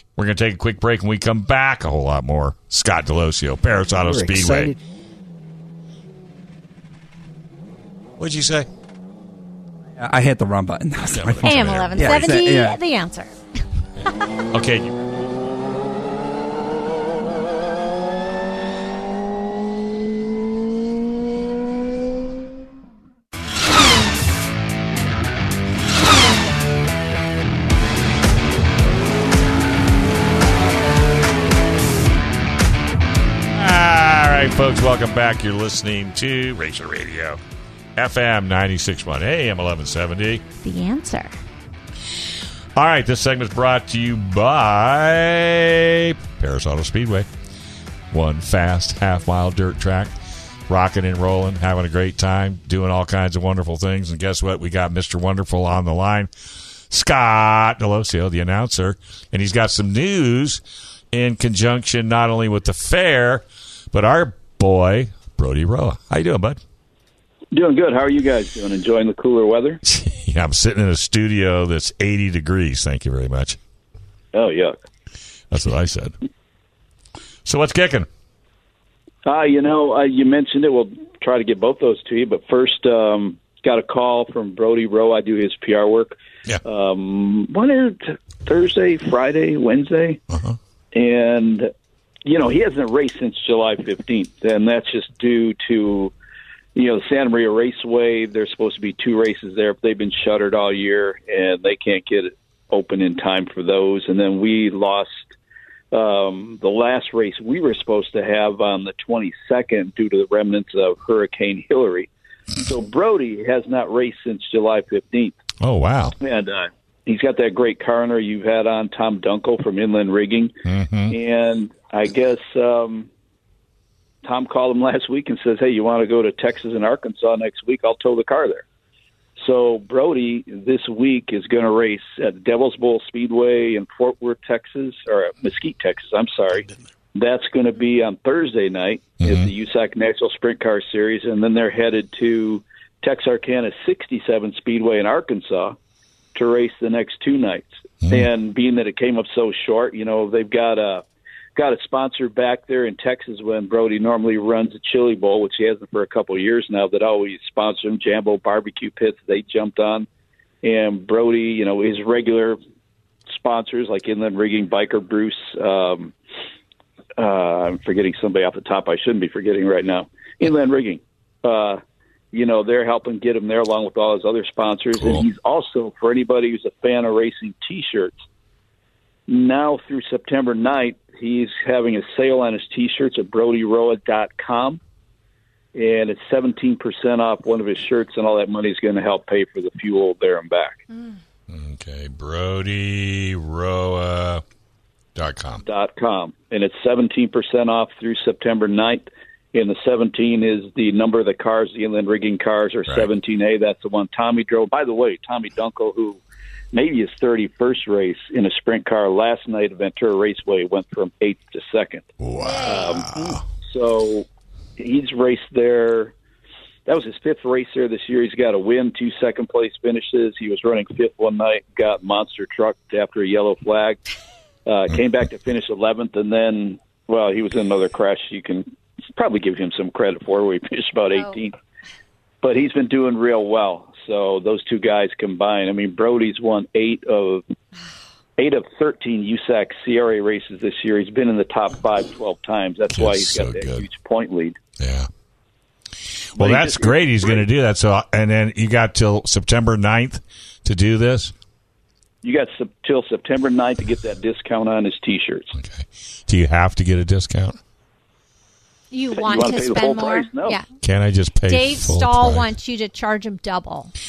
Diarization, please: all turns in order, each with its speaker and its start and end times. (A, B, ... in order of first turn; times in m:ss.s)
0:00.2-0:04.7 A
0:04.0-0:04.7 B
0:08.2-0:08.7 A
0:10.0-0:12.8 B
0:11.1-0:12.4 A
0:11.4-0:13.4 C
0:14.5-0:14.9 A
0:33.5-0:37.4 A
0:38.0-0:40.4 A
0:40.6-0:41.4 C
0:42.8-0:47.3 A
0:48.1-0:50.1 A
0:50.7-0:56.3 A
0:56.9-1:06.6 A
1:07.5-1:09.8 D
1:09.8-1:13.6 A
1:14.3-1:14.8 D
1:15.5-1:16.1 A
1:17.4-1:18.1 A
1:19.2-1:30.2 D
1:30.3-1:30.6 A
1:30.9-1:31.7 D
1:32.2-1:36.1 D
1:36.7-1:45.2 D
1:45.9-1:52.1 D
1:52.6-1:55.4 D
1:55.6-1:56.2 A
1:56.2-2:00.5 D
2:00.6-2:01.1 A
2:01.1-2:03.1 D
2:04.2-2:08.6 D
2:09.4-2:25.8 D
2:19.2-2:19.5 A
2:26.3-2:31.0 D
2:31.5-2:40.1 D
2:40.6-2:42.6 D
2:43.3-2:46.1 D
2:47.2-2:51.8 D
2:52.3-2:58.2 D
2:55.0-2:55.3 A
2:59.3-3:04.8 D
3:05.7-3:10.8 D
3:11.5-3:14.4 A
3:15.1-3:15.6 A
3:15.6-3:26.2 D
3:26.7-3:32.1 D
3:32.2-3:33.4 A
3:32.4-3:32.9 C
3:32.7-3:34.2 D
3:34.8-3:36.1 D
3:36.8-3:44.0 D
3:44.6-3:51.5 D
3:52.4-3:57.4 D
3:58.4-4:04.6 D
4:02.9-4:03.9 A
4:04.8-4:05.1 A
4:06.3-4:11.3 A
4:06.4-4:07.4 D
4:12.2-4:15.5 D
4:15.5-4:17.6 A
4:18.9-4:20.6 C
4:19.2-4:20.6 D
4:20.8-4:22.5 A
4:21.5-4:23.9 C